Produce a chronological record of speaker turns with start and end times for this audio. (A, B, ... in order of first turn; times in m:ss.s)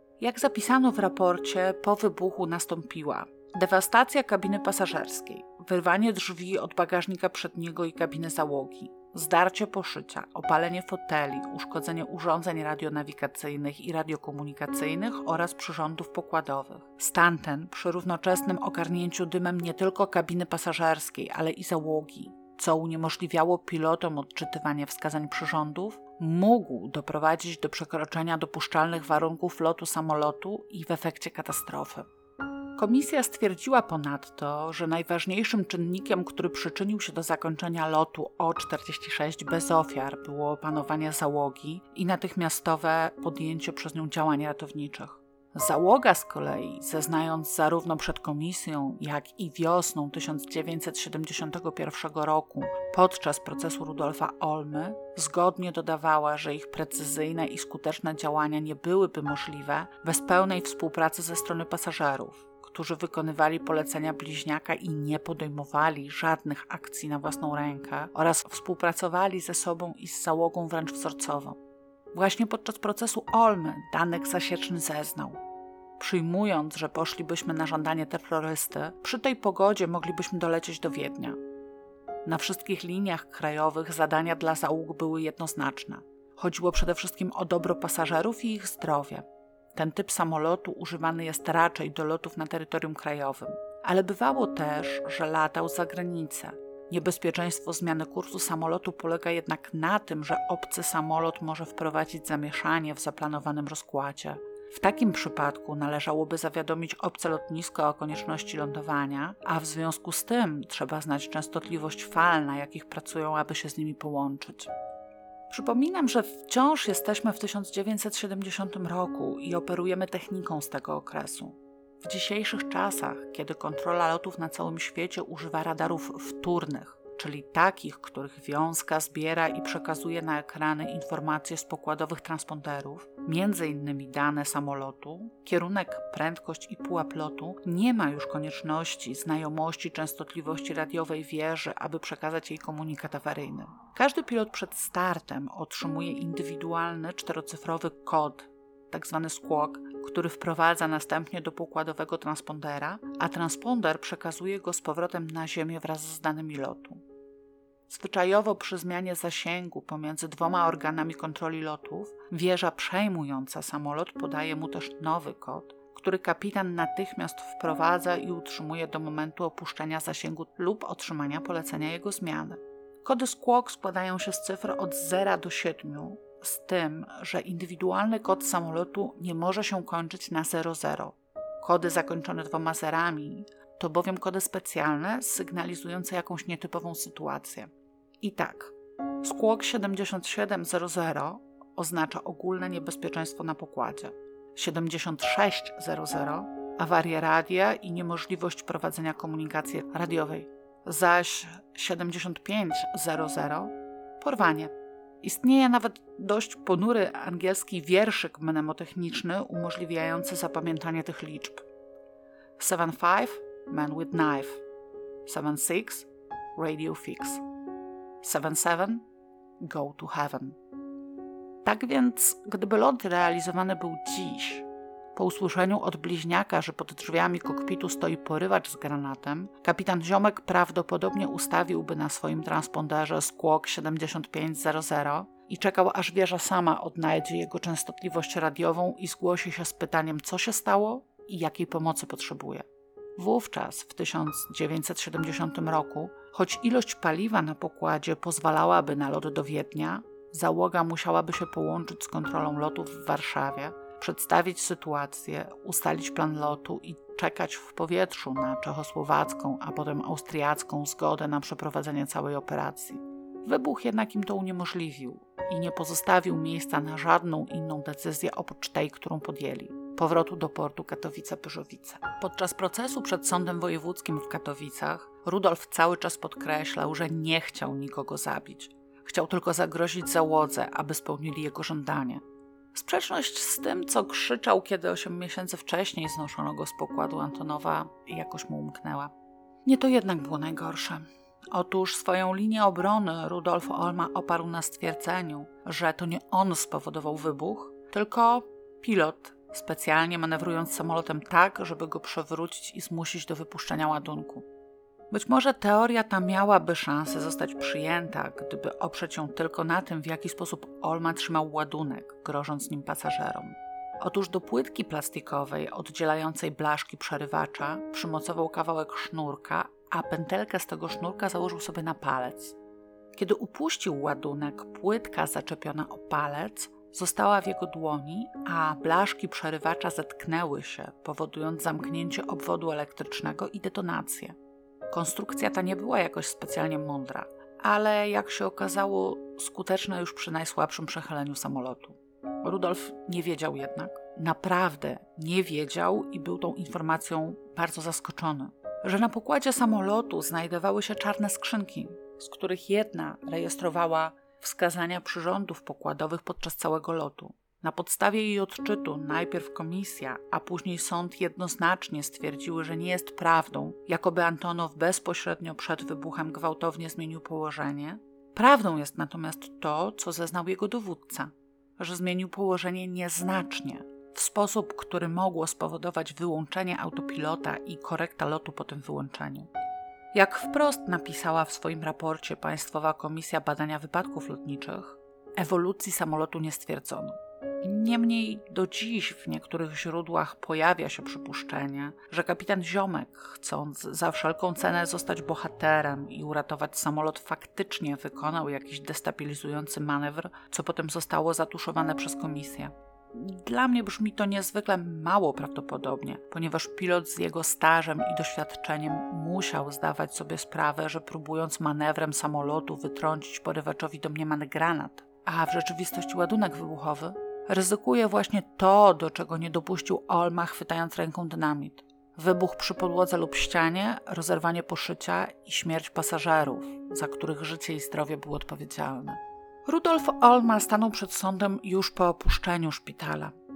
0:00.2-0:32.1 A
0:32.8-1:11.6 A
1:12.1-1:15.4 A
1:16.0-1:21.4 A
1:22.2-1:54.7 A
1:55.5-2:37.0 A
2:37.9-3:31.6 A
3:32.6-3:34.6 A
3:35.3-3:37.4 A
3:38.2-3:39.0 A
3:39.6-3:40.6 A
3:41.6-4:42.2 A
4:42.7-4:49.1 A
4:49.6-5:04.5 A
5:05.1-5:22.6 A
5:23.1-5:34.4 A
5:34.9-6:19.5 A
6:20.1-7:13.3 A